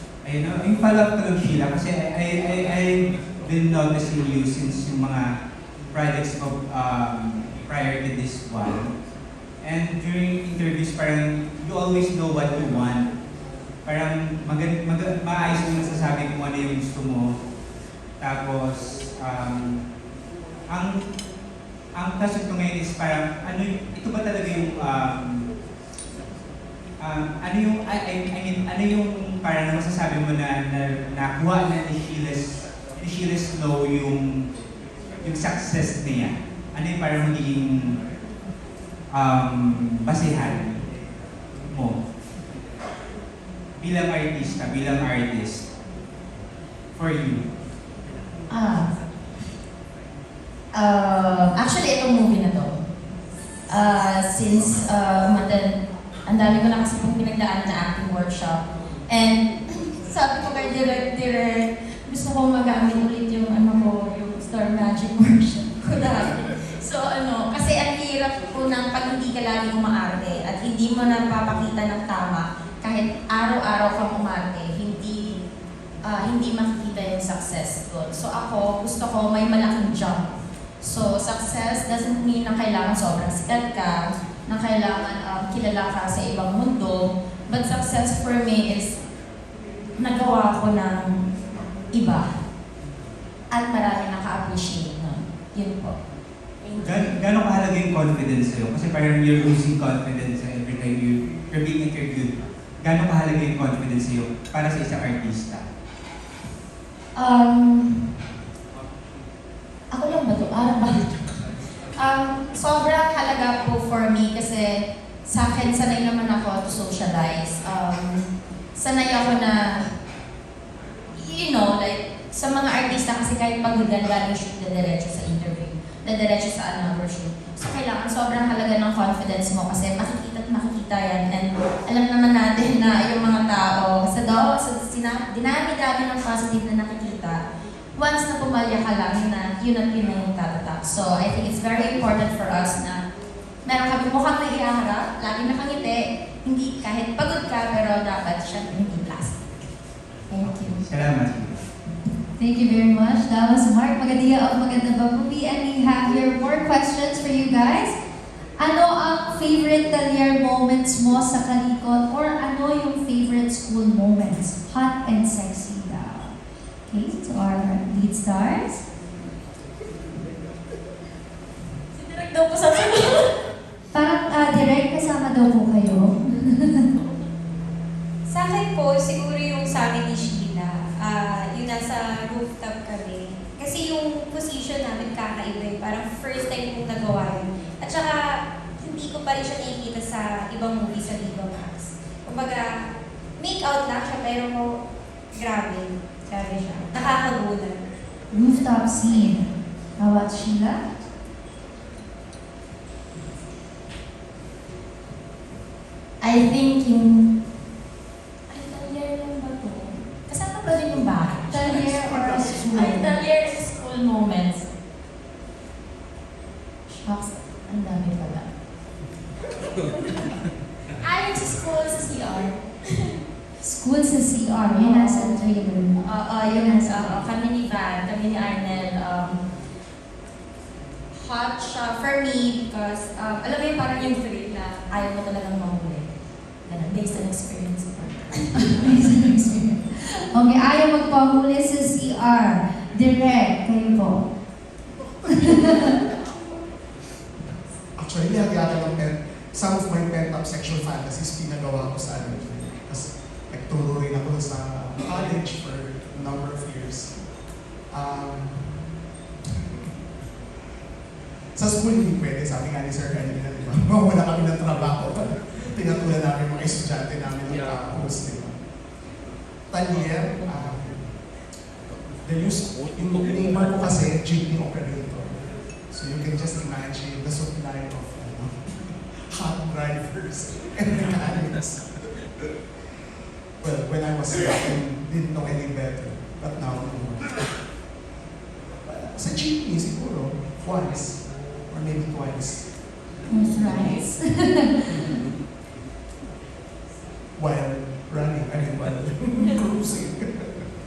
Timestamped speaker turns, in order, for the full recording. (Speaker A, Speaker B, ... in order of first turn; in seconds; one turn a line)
Speaker A: 0.2-5.2
Speaker A: 5.9-8.9
Speaker A: 9.6-13.0
Speaker A: 13.9-17.3
Speaker A: 18.2-19.8
Speaker A: 22.0-25.4
Speaker A: 27.0-34.2
Speaker A: 35.2-37.7
Speaker A: 39.1-40.8
Speaker A: 41.7-42.0
Speaker A: 43.8-45.6
Speaker A: 47.0-47.5
Speaker B: 48.5-48.9
Speaker B: 50.7-52.7
Speaker B: 53.7-55.7
Speaker B: 56.3-75.4
Speaker B: 76.0-80.3
Speaker B: 80.8-88.9
Speaker B: 90.0-91.1
Speaker B: 91.9-92.3
Speaker B: 93.5-96.0
Speaker B: 96.6-97.2
Speaker A: 96.8-102.3
Speaker A: 102.8-105.7
Speaker B: 107.2-108.0
Speaker B: 109.9-111.4
Speaker B: 112.0-119.6
Speaker B: 121.2-137.4
Speaker B: 138.0-143.0
Speaker B: 143.7-149.5
Speaker B: 150.3-150.8
Speaker A: 150.8-151.6
Speaker C: 152.4-157.9
Speaker C: 158.6-166.3
Speaker C: 166.9-168.8
Speaker B: 171.9-173.3
Speaker C: 173.9-176.8
Speaker D: 178.3-188.2
Speaker D: 188.8-192.7
Speaker D: 193.4-194.8
Speaker D: 195.3-197.8
Speaker C: 198.3-199.5
Speaker C: 200.0-200.8
Speaker B: 206.2-207.3
Speaker B: 208.5-211.8
Speaker C: 211.5-213.2
Speaker E: 211.9-212.8
Speaker B: 212.7-214.6
Speaker B: 216.9-218.5
Speaker B: 221.0-222.6
Speaker C: 223.6-227.2
Speaker B: 224.7-229.4
Speaker B: 231.2-236.1
Speaker B: 236.7-238.8
Speaker C: 238.9-239.7
Speaker C: 240.3-244.3
Speaker E: 245.0-246.0
Speaker E: 248.0-257.1
Speaker E: 257.9-258.9
Speaker E: 261.6-268.6
Speaker E: 269.7-271.1
Speaker E: 272.2-282.2
Speaker E: 283.6-287.5
Speaker E: 288.9-292.7
Speaker C: 293.3-295.0
Speaker E: 293.6-293.9
Speaker E: 297.4-300.3